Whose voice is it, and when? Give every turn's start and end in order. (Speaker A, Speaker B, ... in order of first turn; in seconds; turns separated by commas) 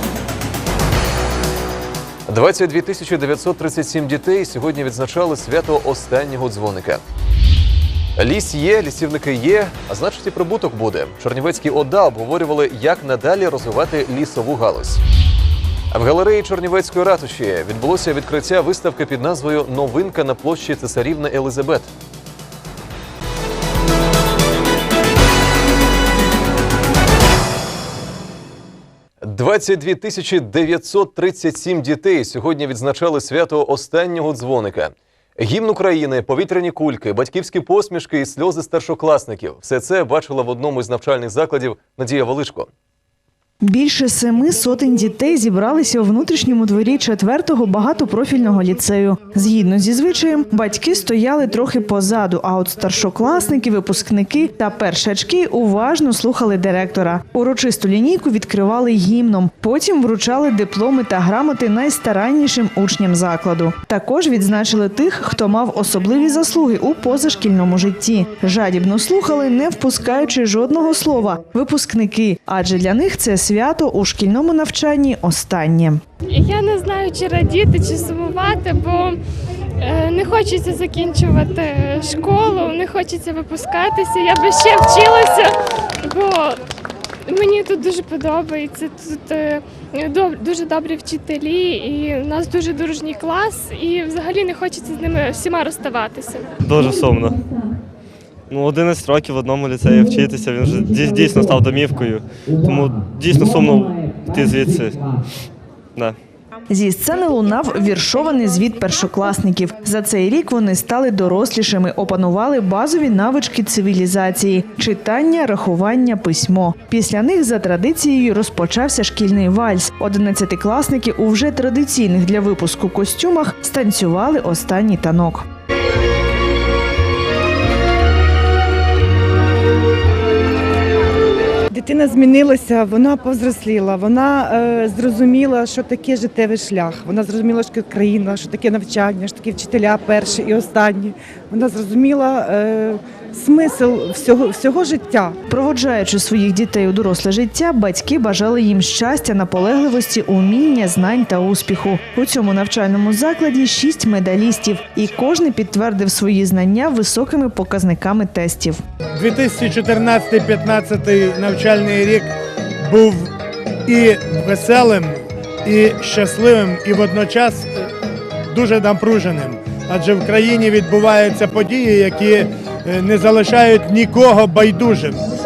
Speaker A: 2.3-7.0, Speaker A: 8.2-15.0, Speaker A: 15.9-21.9, Speaker A: 29.2-42.7, Speaker B: 43.6-76.0, Speaker C: 76.3-79.2, Speaker C: 79.8-85.5, Speaker C: 86.0-86.6, Speaker C: 87.3-96.5, Speaker D: 96.6-97.4, Speaker D: 98.5-105.1, Speaker B: 106.7-125.4, Speaker E: 131.7-145.4, Speaker B: 145.5-158.8, Speaker F: 159.2-163.3, Speaker F: 163.9-167.7, Speaker F: 168.5-175.2